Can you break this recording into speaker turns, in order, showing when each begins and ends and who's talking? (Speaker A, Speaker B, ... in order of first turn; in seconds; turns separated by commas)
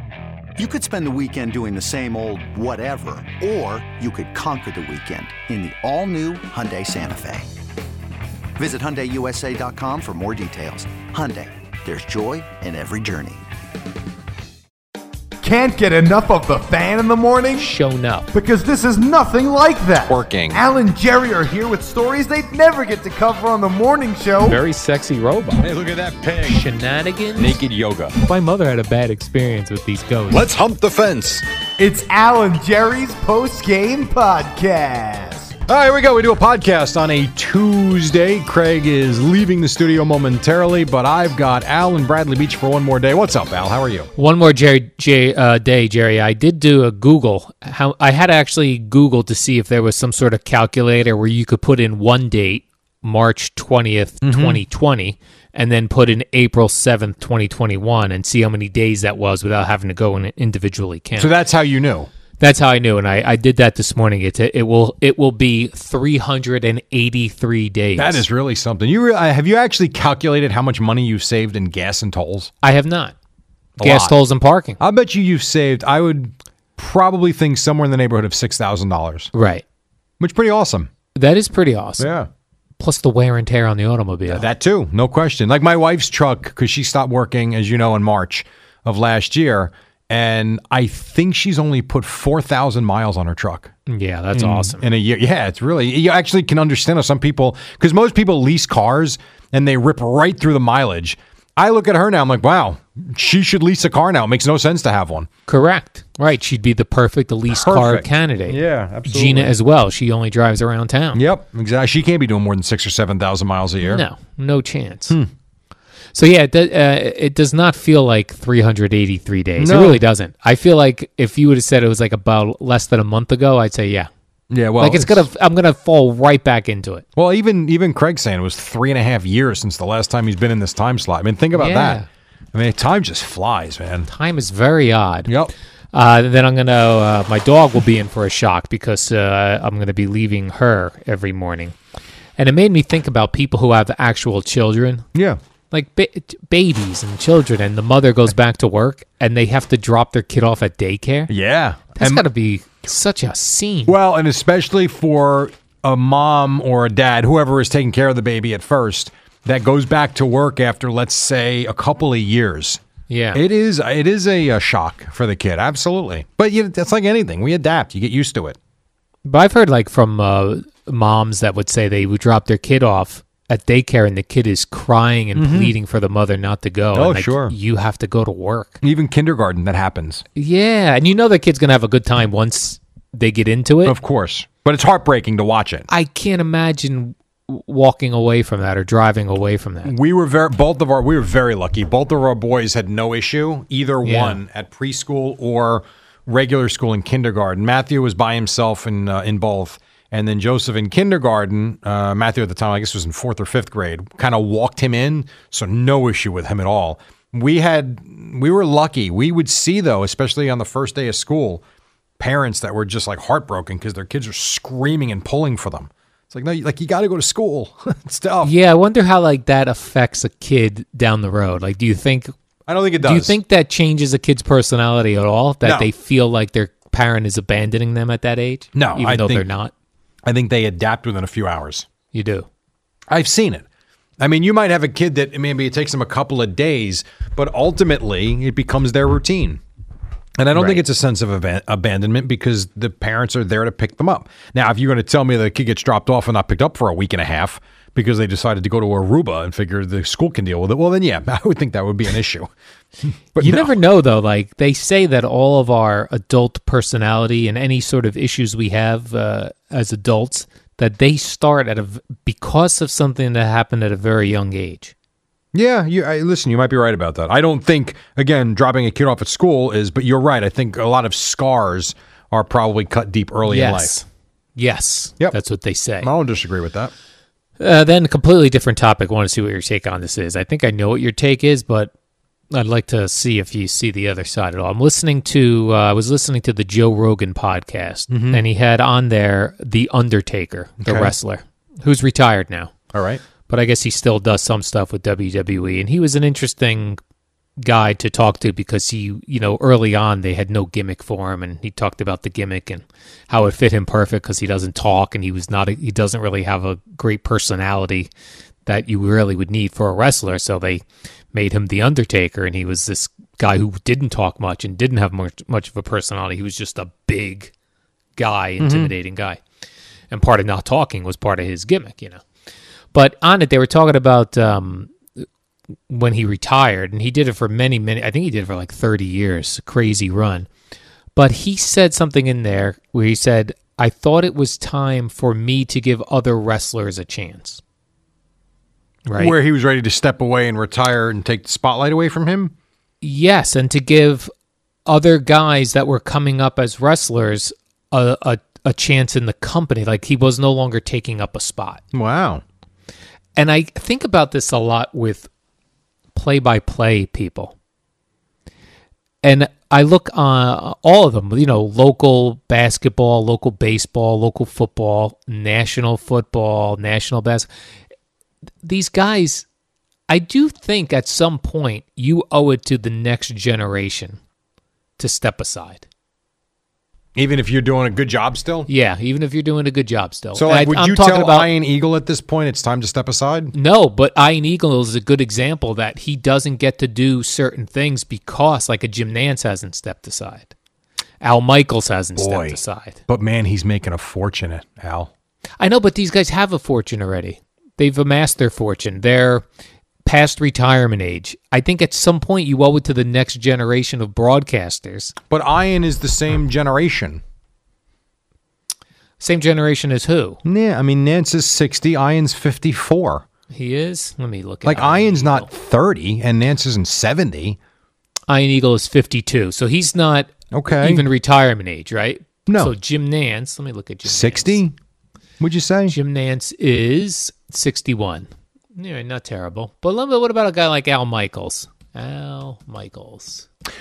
Speaker A: 0.6-7.5, Speaker A: 8.6-13.4, Speaker B: 15.4-17.7, Speaker C: 17.6-18.3, Speaker B: 18.3-24.6, Speaker D: 20.0-20.6, Speaker C: 24.4-25.7, Speaker D: 25.6-26.6, Speaker C: 26.4-27.6, Speaker D: 27.4-28.1, Speaker C: 28.2-30.5, Speaker D: 30.3-31.4, Speaker B: 31.8-35.5, Speaker D: 35.7-44.1, Speaker C: 44.2-61.3, Speaker D: 54.2-54.6, Speaker D: 61.2-62.1, Speaker C: 62.4-68.2, Speaker D: 68.0-72.5, Speaker C: 72.6-73.2, Speaker D: 73.8-74.2, Speaker C: 73.8-74.8, Speaker D: 74.8-79.3, Speaker C: 79.3-79.6, Speaker D: 80.2-80.9, Speaker C: 81.2-82.1, Speaker D: 82.0-82.3, Speaker C: 82.8-84.5, Speaker D: 84.3-93.7, Speaker C: 93.9-94.8, Speaker D: 94.3-105.3, Speaker C: 105.5-111.2, Speaker D: 107.5-109.5, Speaker D: 111.1-114.0, Speaker C: 113.8-115.2, Speaker C: 116.1-124.1, Speaker D: 119.6-120.0, Speaker D: 124.5-125.3, Speaker C: 124.8-127.0, Speaker D: 127.2-132.0, Speaker C: 131.5-132.1, Speaker D: 132.5-134.1, Speaker C: 134.1-135.3, Speaker D: 135.3-135.5, Speaker C: 135.9-141.8, Speaker C: 142.4-145.1, Speaker D: 145.1-145.4, Speaker C: 145.7-151.3, Speaker D: 151.3-152.3, Speaker C: 151.9-153.9, Speaker D: 153.9-162.8, Speaker C: 163.1-163.4, Speaker D: 163.3-168.6, Speaker C: 169.2-178.8, Speaker D: 175.3-175.8, Speaker D: 176.9-177.5, Speaker D: 178.8-180.2, Speaker C: 180.4-184.0, Speaker D: 183.8-185.9, Speaker C: 185.9-189.9, Speaker D: 189.8-211.6, Speaker C: 194.0-194.4, Speaker D: 212.2-218.6, Speaker C: 218.4-222.3, Speaker D: 222.7-223.4, Speaker C: 223.0-229.7, Speaker D: 225.6-225.9, Speaker D: 228.8-229.5, Speaker D: 230.2-231.9, Speaker C: 232.1-232.5, Speaker D: 233.1-233.7, Speaker D: 234.2-239.6, Speaker D: 240.4-252.5, Speaker C: 240.5-240.8, Speaker D: 253.1-253.8, Speaker C: 253.4-264.9, Speaker D: 265.5-274.0, Speaker C: 273.5-276.1, Speaker D: 276.0-276.9, Speaker C: 277.6-281.9, Speaker C: 282.5-292.7, Speaker D: 288.1-288.4, Speaker D: 290.8-291.1, Speaker D: 292.9-293.2, Speaker C: 293.5-297.0, Speaker C: 297.6-308.1, Speaker C: 308.7-317.5, Speaker C: 318.2-319.4, Speaker D: 318.6-318.9, Speaker C: 320.1-322.2, Speaker C: 322.9-325.2, Speaker C: 325.9-330.5, Speaker C: 331.1-337.6, Speaker C: 339.1-339.4, Speaker D: 339.2-342.5, Speaker C: 343.0-344.3, Speaker C: 344.9-351.8, Speaker D: 351.9-352.4, Speaker C: 353.4-355.3, Speaker C: 356.1-357.5, Speaker C: 359.2-367.5, Speaker C: 368.6-369.5, Speaker C: 370.1-374.2, Speaker C: 375.0-375.9, Speaker D: 377.1-378.7, Speaker C: 378.7-381.5, Speaker D: 380.4-383.5, Speaker C: 383.5-390.5, Speaker C: 391.2-393.0, Speaker D: 392.2-395.1, Speaker C: 395.6-399.5, Speaker C: 400.1-405.1, Speaker D: 405.3-407.2, Speaker C: 409.2-410.4, Speaker D: 410.4-413.2, Speaker C: 413.5-415.5, Speaker D: 414.6-417.6, Speaker C: 418.3-424.6, Speaker D: 420.5-421.1, Speaker D: 422.5-422.7, Speaker D: 424.0-424.8, Speaker D: 425.4-426.0, Speaker C: 425.9-433.5